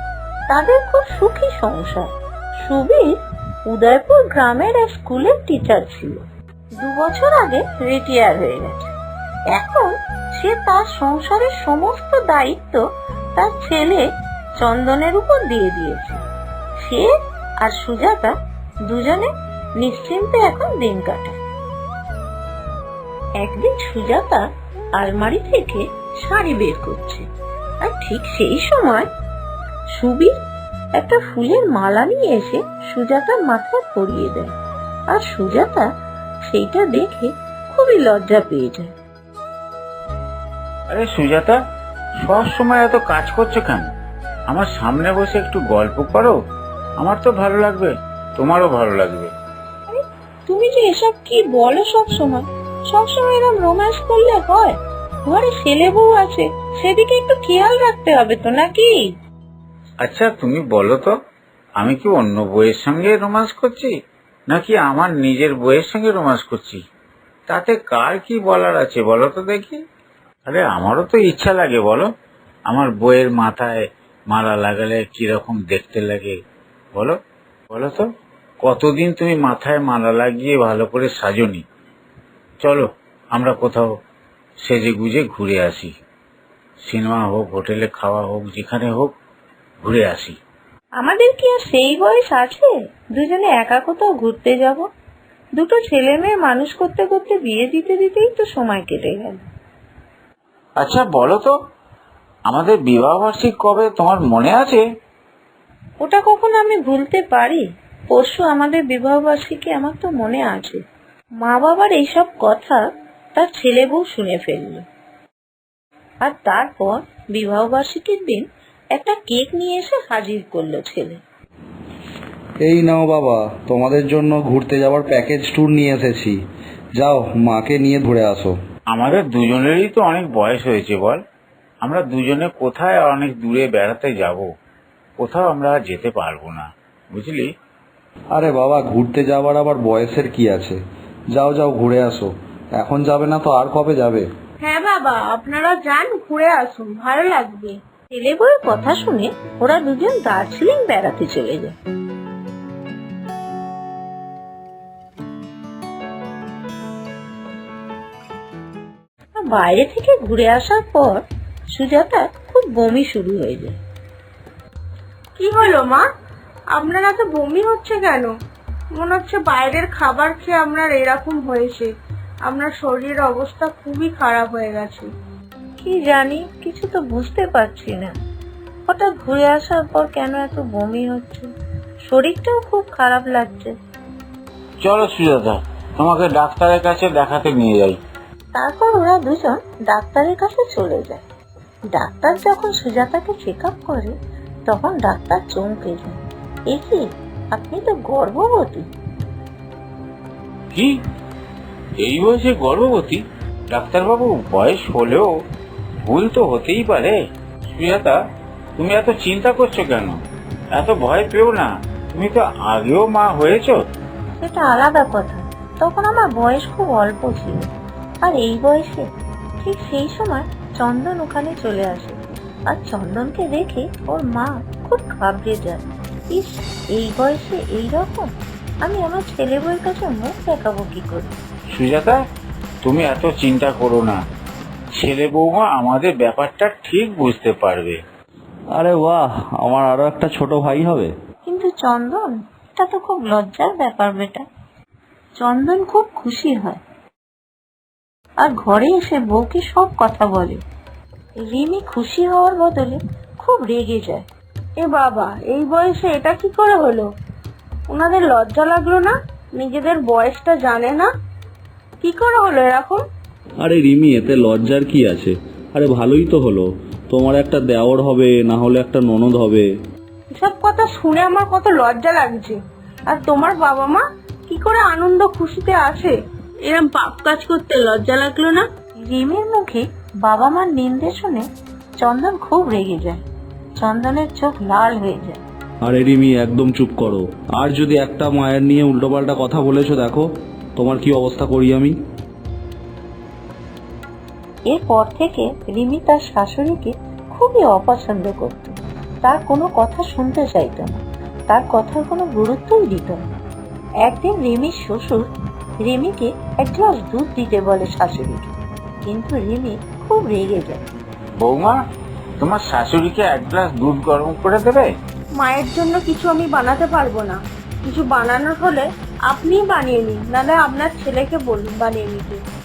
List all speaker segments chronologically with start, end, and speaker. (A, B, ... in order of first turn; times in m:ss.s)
0:00.5-0:06.2 A
0:06.8-0:08.9 A
0:09.5-0:12.8 A
0:13.4-0:14.1 A
0:14.6-0:16.2 A
0:16.8-0:18.4 A
0:18.9-0:21.4 A
0:23.4-0:27.3 A
0:27.8-0:29.1 A
0:29.9-0:30.3 A
0:31.0-0:34.5 A
0:35.1-0:35.9 A
0:36.5-0:38.9 A
0:40.9-0:41.6 B
0:42.2-0:43.9 B
0:44.5-0:46.4 B
0:47.0-0:49.3 B
0:49.9-0:59.0 A
1:00.0-1:01.1 B
1:01.8-1:03.9 B
1:04.5-1:06.8 B
1:07.5-1:09.8 B
1:10.5-1:12.1 B
1:12.7-1:16.4 B
1:17.7-1:18.0 B
1:18.6-1:21.6 B
1:22.6-1:23.9 B
1:24.6-1:25.9 B
1:26.9-1:29.1 B
1:29.8-1:30.4 B
1:31.0-1:34.9 A
1:35.6-1:39.4 A
1:40.8-1:41.5 B
1:42.5-1:44.8 B
1:46.0-1:50.8 A
1:51.4-1:54.8 A
1:56.2-2:01.2 A
2:02.6-2:06.4 C
2:07.0-2:08.6 C
2:08.9-2:11.2 B
2:11.8-2:14.5 B
2:15.2-2:17.5 B
2:18.3-2:20.8 C
2:21.3-2:24.3 C
2:24.6-2:27.8 D
2:28.1-2:31.7 A
2:39.4-2:43.8 A
2:45.4-2:46.0 D
2:46.7-2:48.3 D
2:49.0-2:51.9 D
2:52.5-2:55.1 D
2:55.8-2:58.1 A
2:58.9-3:01.5 A
3:02.0-3:03.7 A
3:04.8-3:08.0 B
3:08.5-3:11.2 A
3:11.9-3:14.1 A
3:14.7-3:16.2 A
3:16.7-3:18.9 A
3:22.0-3:25.3 B
3:26.0-3:27.2 B
3:27.7-3:28.2 B
3:28.8-3:30.2 B
3:30.7-3:33.8 B
3:34.4-3:37.7 A
3:38.2-3:39.1 A
3:39.6-3:42.2 A
3:42.7-3:48.3 A
3:48.8-3:51.3 A
3:51.7-3:52.2 B
3:52.8-3:54.2 B
3:55.0-3:58.0 B
3:58.7-4:01.1 C
4:01.4-4:04.4 A
4:05.4-4:06.8 A
4:08.4-4:10.6 A
4:11.4-4:14.3 A
4:14.8-4:17.0 D
4:17.9-4:21.1 D
4:22.0-4:23.0 D
4:23.6-4:29.7 C
4:30.3-4:32.6 D
4:33.1-4:36.1 D
4:36.6-4:38.6 D
4:39.0-4:41.5 A
4:42.0-4:43.2 A
4:43.8-4:45.4 A
4:45.8-4:52.0 C
4:54.7-5:03.2 A
5:04.0-5:05.3 A
5:05.8-5:08.5 A
5:09.0-5:10.8 A
5:11.4-5:11.8 B
5:12.4-5:14.9 B
5:15.4-5:22.4 D